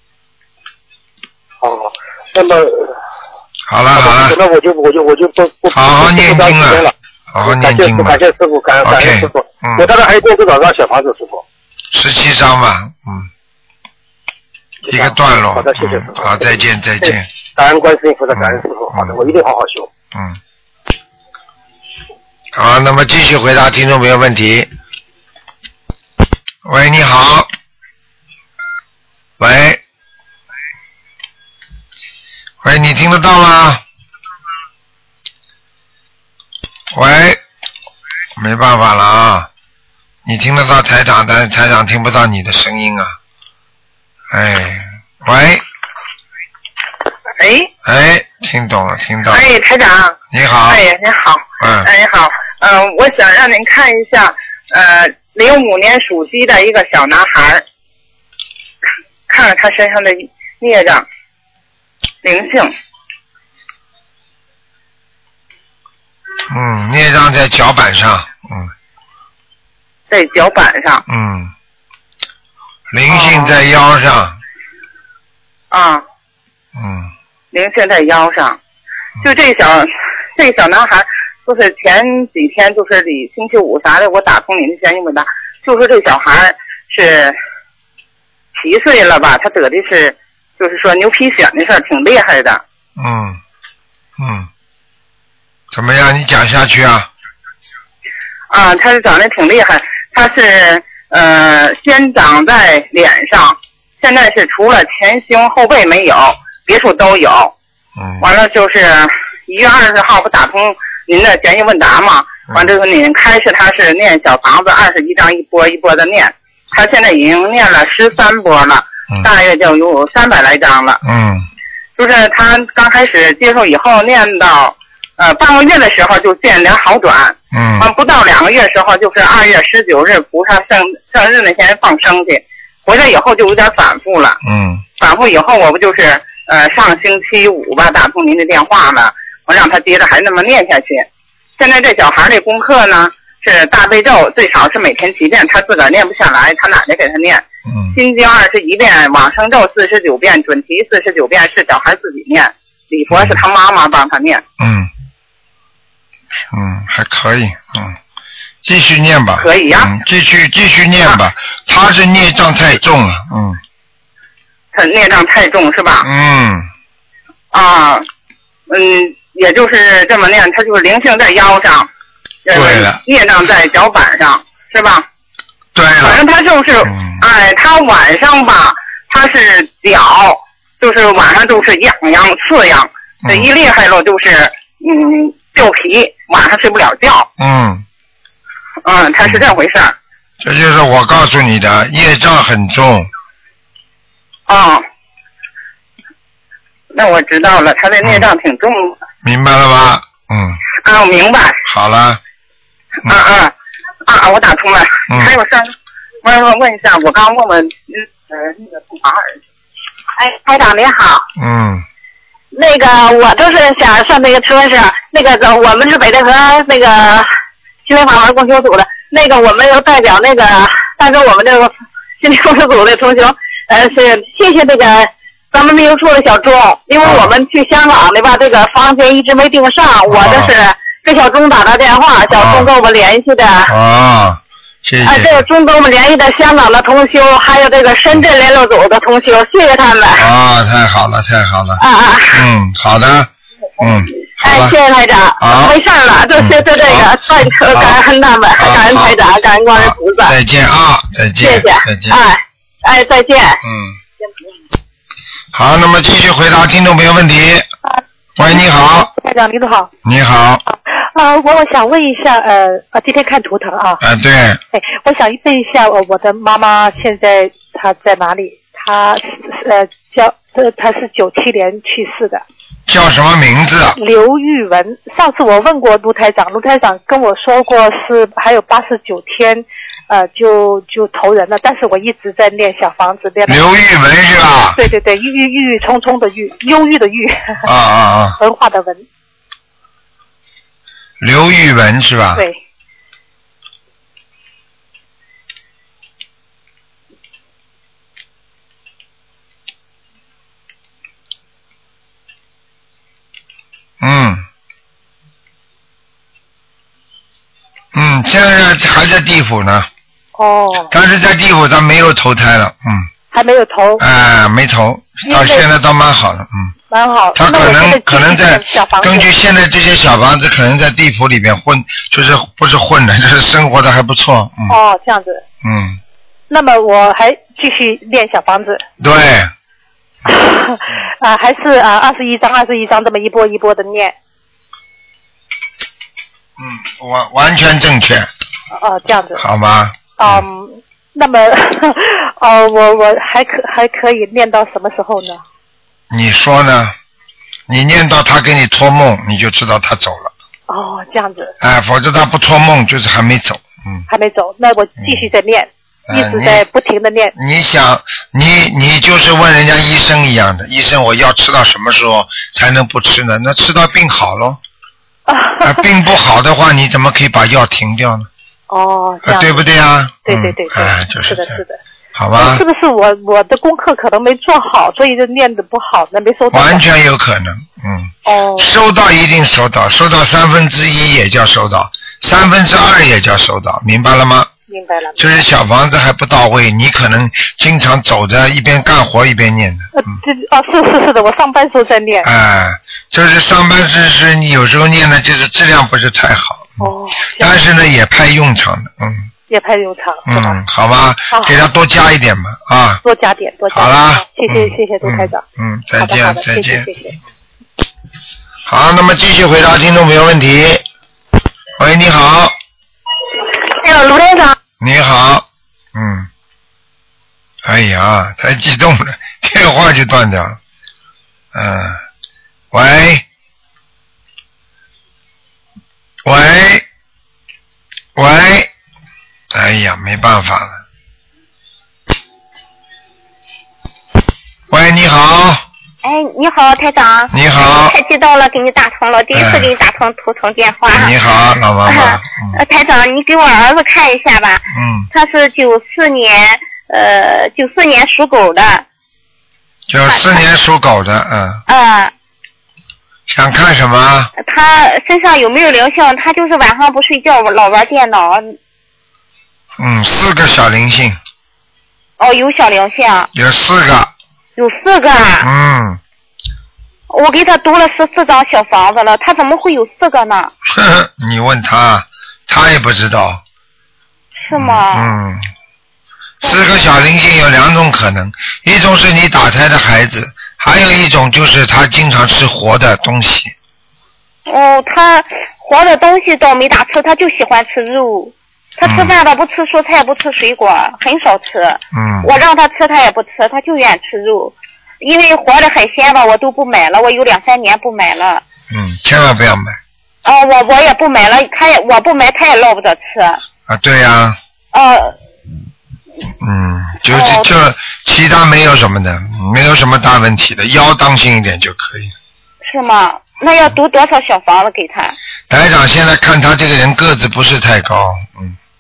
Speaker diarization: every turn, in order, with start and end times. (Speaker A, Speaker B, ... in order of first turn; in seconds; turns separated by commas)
Speaker A: 1.6-3.0, Speaker B: 3.7-4.4, Speaker A: 3.9-11.4, Speaker B: 5.7-8.2, Speaker B: 8.8-9.9, Speaker B: 11.9-13.3, Speaker A: 14.8-19.9, Speaker B: 14.9-17.3, Speaker B: 18.3-19.2, Speaker B: 20.1-20.4, Speaker B: 22.5-24.7, Speaker B: 26.6-27.5, Speaker B: 29.4-29.8, Speaker B: 32.6-33.8, Speaker B: 36.9-37.4, Speaker B: 38.4-39.5, Speaker B: 40.2-43.1, Speaker B: 44.3-45.6, Speaker C: 47.4-47.7, Speaker B: 47.8-49.4, Speaker C: 49.3-57.6, Speaker B: 50.3-50.8, Speaker B: 51.6-51.9, Speaker C: 59.3-61.0, Speaker C: 62.2-62.7, Speaker B: 66.5-68.7, Speaker C: 70.1-71.0, Speaker B: 71.1-71.5, Speaker B: 72.9-74.3, Speaker C: 73.1-73.6, Speaker C: 75.7-76.0, Speaker B: 76.7-77.1, Speaker C: 77.5-78.6, Speaker C: 79.2-87.3, Speaker C: 88.5-92.6, Speaker B: 93.0-93.4, Speaker B: 94.2-94.5, Speaker B: 95.7-97.1, Speaker C: 98.5-107.5, Speaker B: 108.0-108.3, Speaker C: 108.2-121.0, Speaker B: 121.0-121.4, Speaker C: 122.0-134.4, Speaker B: 127.5-127.9, Speaker B: 134.4-134.8, Speaker C: 135.0-141.1, Speaker C: 141.6-147.4, Speaker B: 147.7-147.9, Speaker C: 147.9-154.4, Speaker B: 153.1-153.4, Speaker B: 154.6-154.9, Speaker B: 156.5-158.0, Speaker B: 158.6-163.6, Speaker C: 159.4-159.9, Speaker C: 164.7-166.1, Speaker B: 166.0-166.7, Speaker C: 167.5-168.1, Speaker C: 168.7-171.9, Speaker C: 172.5-175.0, Speaker B: 172.5-173.0, Speaker B: 175.7-176.2, Speaker C: 176.0-187.3, Speaker B: 176.8-177.2, Speaker B: 183.2-183.5, Speaker B: 187.4-187.8, Speaker C: 188.8-189.9, Speaker B: 190.4-193.1, Speaker C: 194.5-194.8, Speaker C: 196.9-198.9, Speaker B: 199.2-200.6, Speaker C: 200.8-201.6, Speaker B: 201.7-202.2, Speaker C: 203.1-203.5, Speaker C: 204.0-205.7, Speaker B: 205.1-205.3, Speaker C: 206.2-209.3, Speaker D: 210.2-211.2, Speaker B: 211.4-211.8, Speaker D: 212.5-217.3, Speaker D: 217.8-233.7, Speaker B: 227.0-227.3, Speaker B: 230.1-230.5, Speaker B: 232.3-232.7, Speaker B: 233.7-235.4, Speaker D: 235.0-240.2, Speaker B: 240.2-243.3, Speaker D: 241.8-242.4, Speaker B: 243.8-244.8, Speaker D: 244.4-250.3, Speaker B: 245.4-245.7, Speaker B: 246.4-247.9, Speaker B: 248.6-249.2, Speaker B: 249.7-252.2, Speaker D: 251.4-253.6, Speaker B: 253.6-253.9, Speaker B: 255.5-257.7, Speaker B: 258.4-259.1, Speaker E: 258.4-259.9, Speaker B: 260.0-260.6, Speaker E: 260.7-264.0, Speaker B: 264.0-264.6, Speaker E: 264.7-272.4, Speaker B: 272.9-274.0, Speaker E: 274.0-283.6, Speaker B: 283.5-284.8, Speaker E: 284.7-287.6, Speaker B: 287.6-288.4, Speaker E: 288.4-289.1, Speaker B: 291.2-292.4, Speaker B: 304.0-304.4, Speaker B: 307.9-309.9, Speaker E: 310.4-310.9, Speaker B: 310.9-313.1, Speaker E: 313.3-314.0, Speaker B: 314.0-316.7, Speaker E: 315.2-315.6, Speaker E: 316.9-319.3, Speaker B: 317.4-324.7, Speaker E: 324.7-325.4, Speaker B: 325.6-326.0, Speaker E: 326.5-328.8, Speaker B: 329.0-329.5, Speaker E: 330.2-334.1, Speaker B: 336.6-338.3, Speaker E: 338.7-339.4, Speaker B: 339.4-340.4, Speaker E: 340.2-345.4, Speaker B: 346.1-346.9, Speaker B: 347.7-350.3, Speaker E: 350.7-351.5, Speaker B: 351.6-354.1, Speaker E: 354.1-357.3, Speaker B: 355.0-355.3, Speaker B: 356.1-356.6, Speaker B: 357.3-364.6, Speaker E: 365.3-365.9, Speaker B: 365.6-368.3, Speaker E: 368.7-369.7, Speaker B: 369.2-371.6, Speaker E: 370.2-371.8, Speaker B: 372.1-372.6, Speaker E: 372.3-376.8, Speaker B: 376.5-384.5, Speaker E: 378.2-378.7, Speaker E: 384.7-385.4, Speaker B: 385.2-389.9, Speaker E: 389.9-392.3, Speaker B: 392.2-396.8, Speaker E: 396.8-397.6, Speaker B: 397.4-399.3, Speaker E: 399.5-400.6, Speaker B: 400.3-403.0, Speaker E: 401.3-401.6, Speaker E: 403.0-405.4, Speaker B: 403.7-406.9, Speaker E: 405.9-407.2, Speaker B: 408.6-410.8, Speaker B: 411.8-412.6, Speaker B: 414.8-416.3, Speaker B: 417.6-420.6, Speaker B: 421.5-422.0, Speaker B: 422.7-423.2, Speaker B: 426.2-426.8, Speaker B: 428.1-428.7, Speaker B: 429.5-430.8, Speaker B: 434.7-435.6, Speaker F: 436.0-441.1, Speaker B: 437.3-437.9, Speaker B: 439.3-439.7, Speaker B: 440.9-442.6, Speaker F: 441.8-448.9, Speaker B: 444.7-445.1, Speaker B: 449.9-451.6, Speaker F: 450.1-450.4, Speaker F: 451.7-452.1, Speaker B: 453.3-454.3, Speaker F: 454.4-458.6, Speaker B: 459.8-461.2, Speaker F: 462.2-463.3, Speaker B: 463.3-464.1, Speaker F: 464.6-465.5, Speaker B: 465.4-466.0, Speaker F: 467.1-470.5, Speaker B: 470.7-473.4, Speaker F: 474.4-475.2, Speaker B: 474.5-475.4, Speaker B: 476.4-483.5, Speaker F: 476.4-476.9, Speaker F: 484.5-498.4, Speaker B: 488.8-489.1, Speaker B: 491.9-492.3, Speaker B: 498.7-499.8, Speaker F: 500.2-503.4, Speaker B: 503.7-504.4, Speaker F: 504.7-505.1, Speaker B: 506.4-512.1, Speaker F: 507.1-507.5, Speaker F: 512.6-515.1, Speaker B: 515.5-518.6